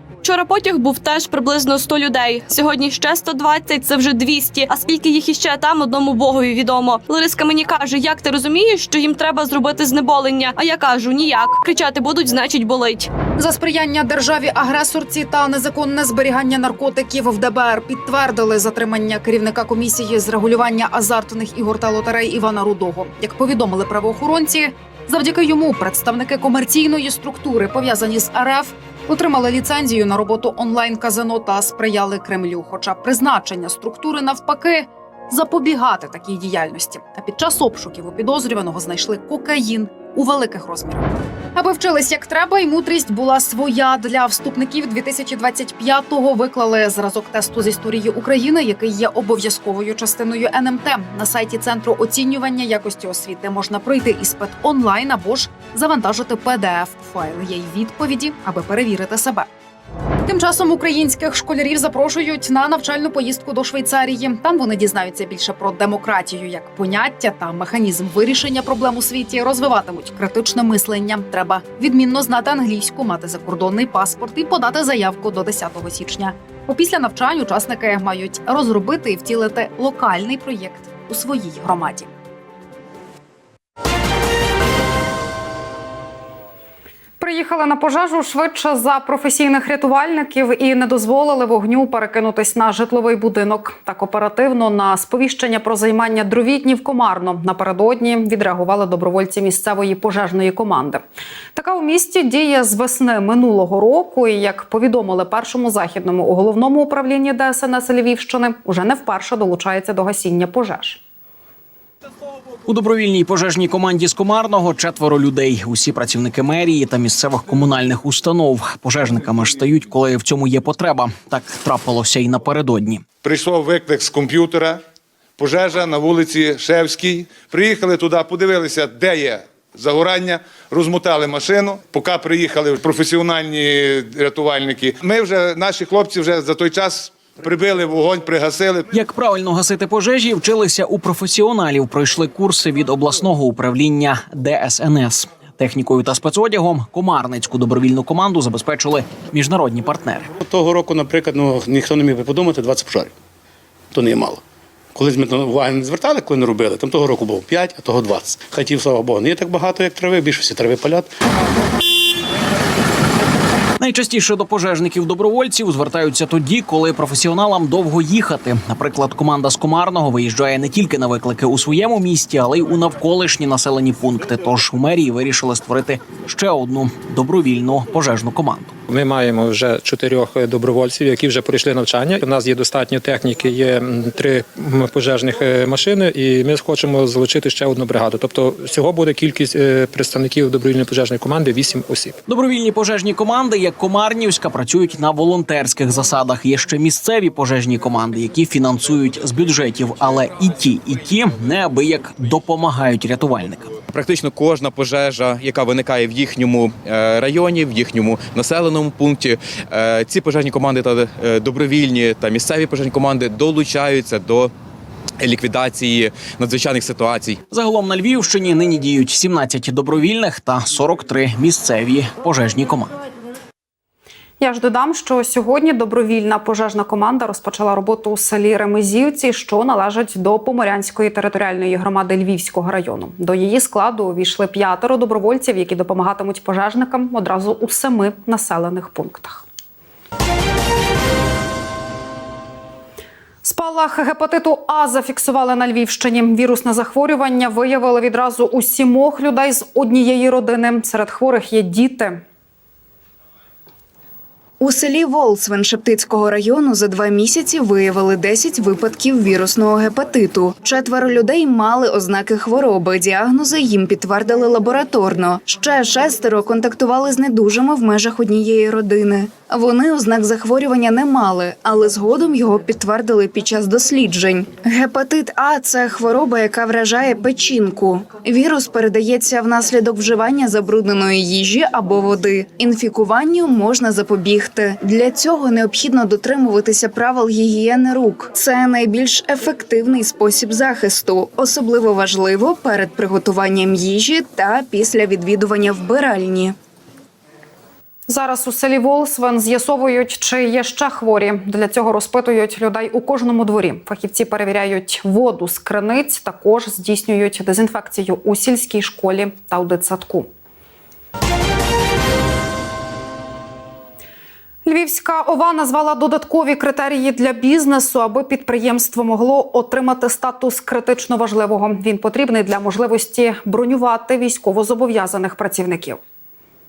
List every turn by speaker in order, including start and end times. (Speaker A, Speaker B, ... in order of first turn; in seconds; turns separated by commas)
Speaker A: 0.2-13.1, Speaker B: 13.4-59.5, Speaker B: 60.2-82.1, Speaker B: 87.2-101.0, Speaker B: 101.5-111.0, Speaker C: 112.7-123.0, Speaker D: 123.2-124.8, Speaker D: 125.4-138.9, Speaker C: 138.9-150.3, Speaker E: 150.4-153.1, Speaker E: 153.9-154.4, Speaker E: 154.9-161.1, Speaker C: 163.8-178.8, Speaker F: 178.9-192.2, Speaker C: 192.2-203.8, Speaker G: 203.9-214.5, Speaker G: 215.2-217.4, Speaker C: 217.5-222.9, Speaker B: 224.4-239.4, Speaker B: 243.4-252.2, Speaker H: 254.6-296.5, Speaker B: 298.1-310.3, Speaker B: 314.6-326.0